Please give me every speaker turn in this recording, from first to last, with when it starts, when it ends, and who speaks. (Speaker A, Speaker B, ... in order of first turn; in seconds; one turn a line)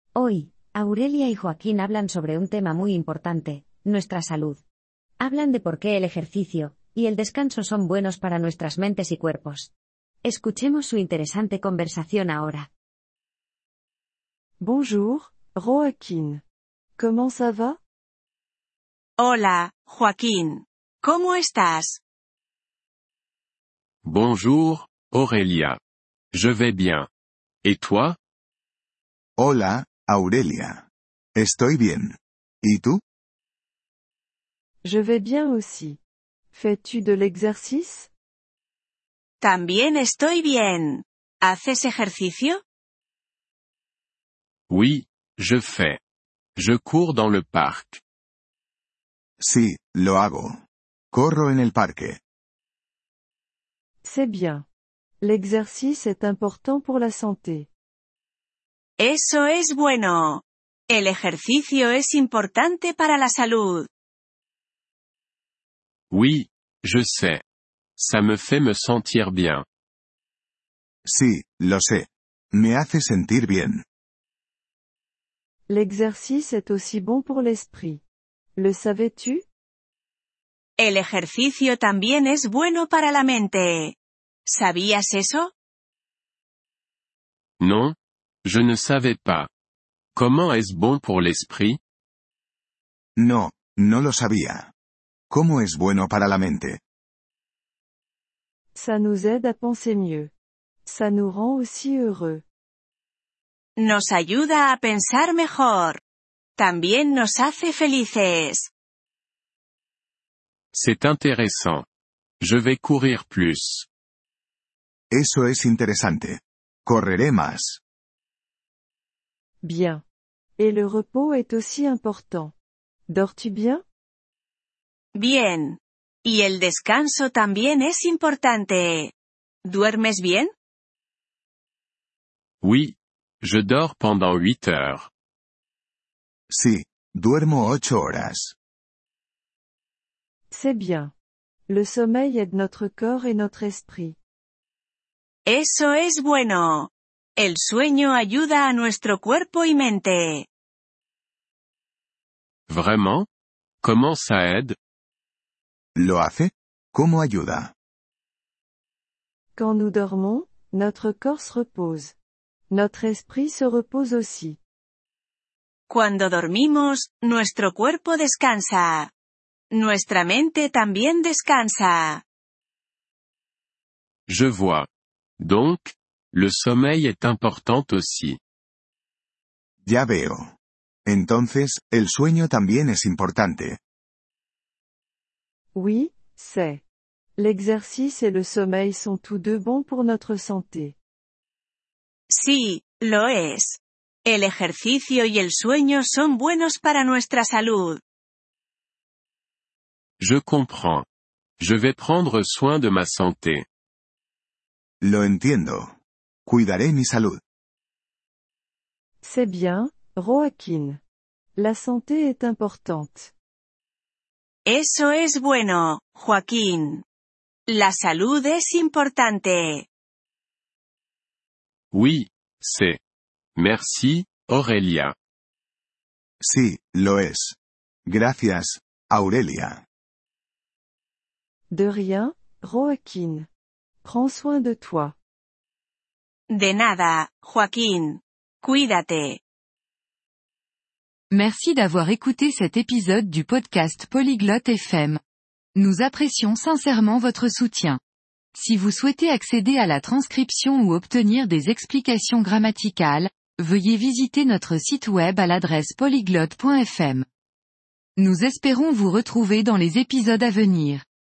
Speaker A: 0.1-4.6
Speaker A: 5.2-9.7
Speaker A: 10.2-12.7
Speaker B: 14.6-16.4
Speaker B: 17.0-17.8
Speaker C: 19.2-22.0
Speaker D: 24.0-25.8
Speaker D: 26.3-27.1
Speaker D: 27.6-28.2
Speaker E: 29.4-30.9
Speaker E: 31.4-33.0
Speaker B: 34.8-36.0
Speaker B: 36.5-38.1
Speaker C: 39.4-42.6
Speaker D: 44.7-46.0
Speaker D: 46.5-48.0
Speaker E: 49.4-50.5
Speaker E: 51.1-52.2
Speaker B: 54.0-54.6
Speaker B: 55.2-57.7
Speaker C: 59.0-63.9
Speaker D: 66.1-67.4
Speaker D: 68.0-69.6
Speaker E: 71.0-73.8
Speaker B: 75.7-78.0
Speaker B: 78.5-79.4
Speaker C: 80.8-84.0
Speaker C: 84.5-85.5
Speaker D: 87.6-89.5
Speaker D: 90.1-91.8
Speaker E: 93.2-94.7
Speaker E: 95.3-96.8
Speaker B: 98.7-100.3
Speaker B: 100.8-102.4
Speaker C: 103.8-106.0
Speaker C: 106.6-108.7
Speaker D: 110.7-111.8
Speaker D: 112.4-113.8
Speaker E: 115.1-117.8
Speaker B: 119.6-120.0
Speaker B: 120.6-122.5
Speaker B: 123.1-123.8
Speaker C: 125.1-129.1
Speaker C: 129.6-130.5
Speaker D: 132.6-135.1
Speaker E: 136.5-138.5
Speaker B: 140.5-141.1
Speaker B: 141.7-144.2
Speaker C: 145.4-150.5
Speaker D: 152.7-153.3
Speaker D: 153.8-154.8
Speaker E: 155.9-157.7
Speaker B: 159.6-162.2
Speaker B: 162.7-164.6
Speaker C: 165.9-169.1
Speaker C: 169.7-172.2
Speaker D: 174.3-174.9
Speaker D: 175.4-178.4
Speaker E: 179.8-180.5
Speaker E: 181.1-183.8
Speaker B: 185.7-186.8
Speaker B: 187.4-190.9
Speaker C: 192.3-198.0
Speaker D: 200.2-201.1
Speaker D: 201.6-203.7
Speaker E: 205.0-205.9
Speaker E: 206.4-207.4
Speaker B: 209.2-211.0
Speaker B: 211.6-213.3
Speaker C: 214.7-217.0
Speaker C: 217.7-219.9
Speaker D: 221.9-223.0
Speaker D: 223.5-225.1
Speaker E: 226.4-229.8
Speaker B: 231.7-233.5
Speaker B: 234.0-235.1
Speaker C: 236.5-239.4
Speaker F: 241.3-245.2
Speaker F: 245.7-248.0
Speaker F: 248.5-257.2
Speaker F: 258.2-261.0